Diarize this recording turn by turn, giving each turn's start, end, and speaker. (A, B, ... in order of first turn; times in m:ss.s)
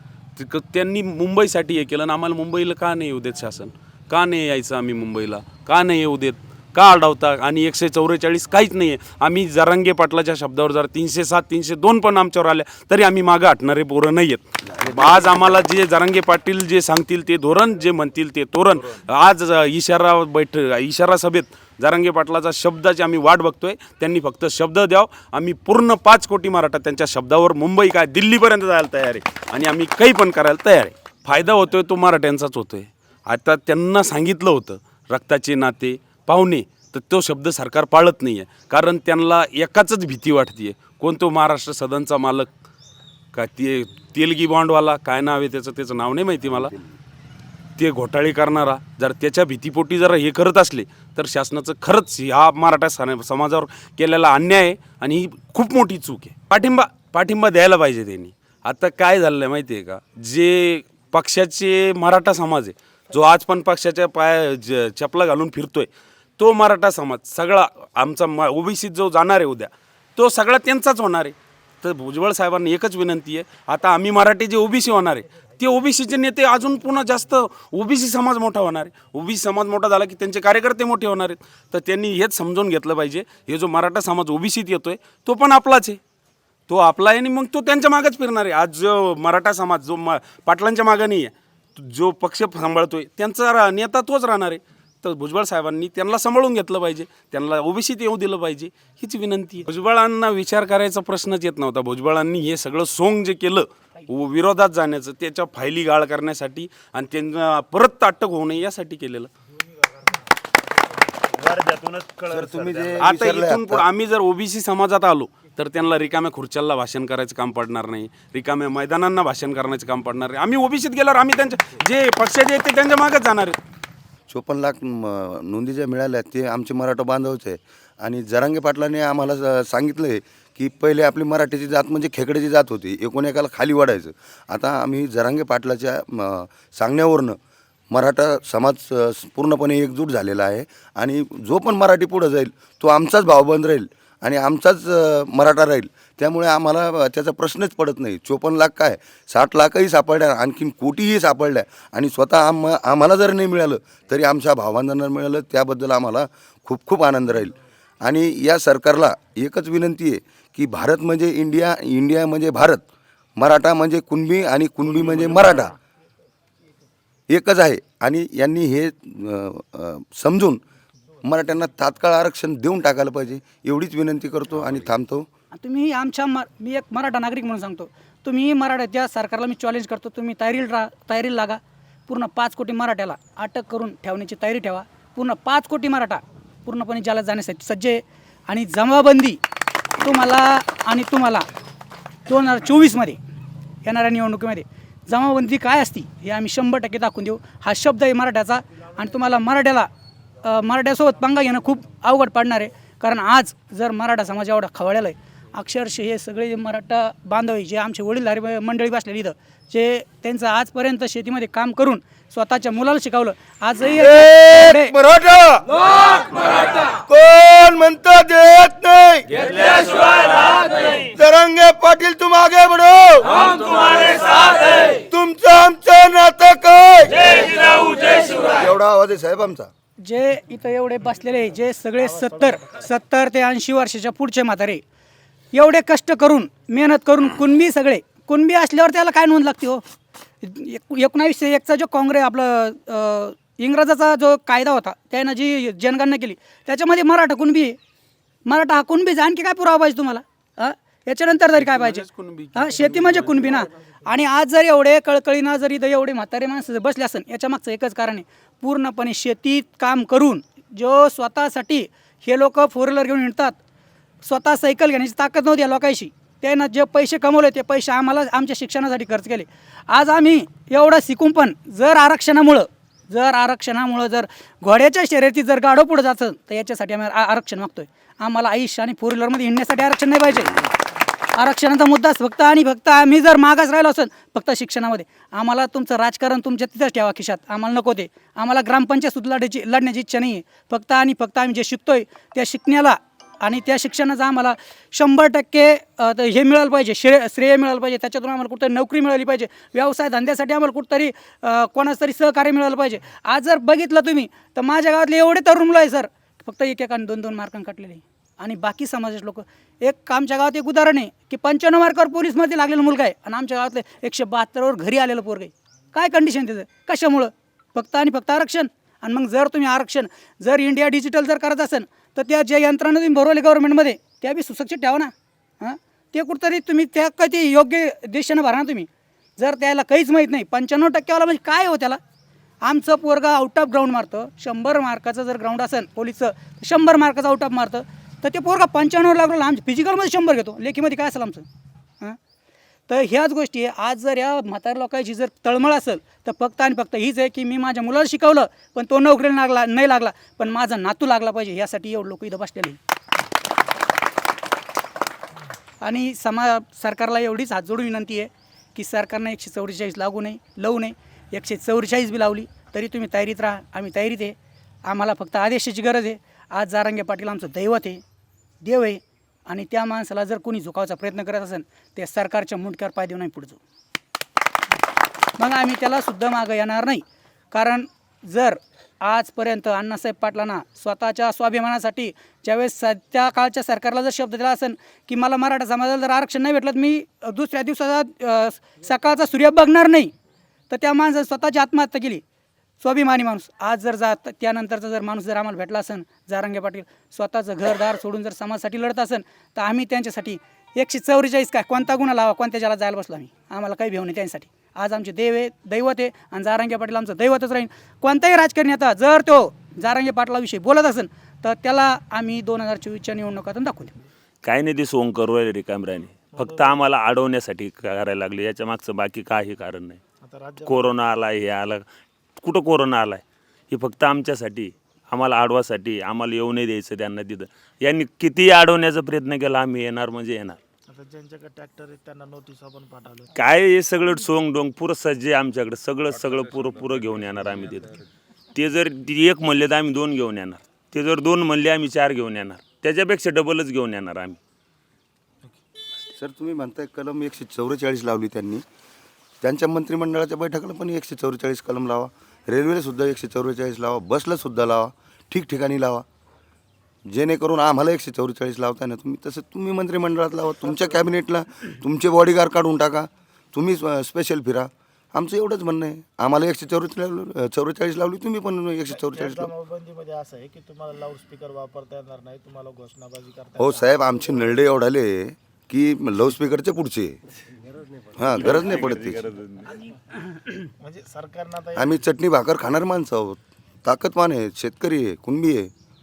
0:00.4-0:42.5 A
0:43.3-0:46.7 A
0:47.8-1:26.0 A
1:26.7-1:49.3 A
1:51.3-1:53.1 B
1:52.3-1:53.8 C
1:53.0-2:03.6 A
2:04.3-2:17.4 C
2:17.9-2:42.8 C
2:43.4-2:45.8 C
2:47.3-2:50.6 C
2:51.2-2:55.3 C
2:55.5-3:09.4 D
3:10.0-3:11.4 D
3:12.3-3:13.2 D
3:13.8-3:19.9 D
3:20.4-3:35.0 D
3:33.9-3:49.7 C
3:50.0-3:54.8 D
3:55.5-3:59.8 D
4:00.4-4:07.8 D
4:08.5-4:23.6 D
4:11.6-4:13.6 A
4:24.2-4:40.6 D
4:41.4-5:32.0 D
5:32.6-5:41.4 D
5:42.9-5:52.8 D
5:55.8-6:04.4 D
6:04.9-6:08.0 D
6:08.6-6:13.6 D
6:15.4-6:30.1 D
6:30.7-6:32.2 D
6:32.8-6:54.0 D
6:54.4-7:00.0 B
6:56.3-6:56.8 E
7:00.2-7:00.9 E
7:00.6-7:01.8 B
7:02.4-7:10.6 B
7:10.9-7:13.3 E
7:13.4-7:18.0 B
7:18.6-7:24.4 B
7:26.1-7:28.6 C
7:29.4-7:36.0 C
7:37.1-7:49.5 C
7:48.9-7:54.2 E
7:53.6-7:57.2 C
7:58.2-7:59.3 C
7:58.3-7:59.8 B
8:00.8-8:02.0 E
8:01.8-8:05.7 C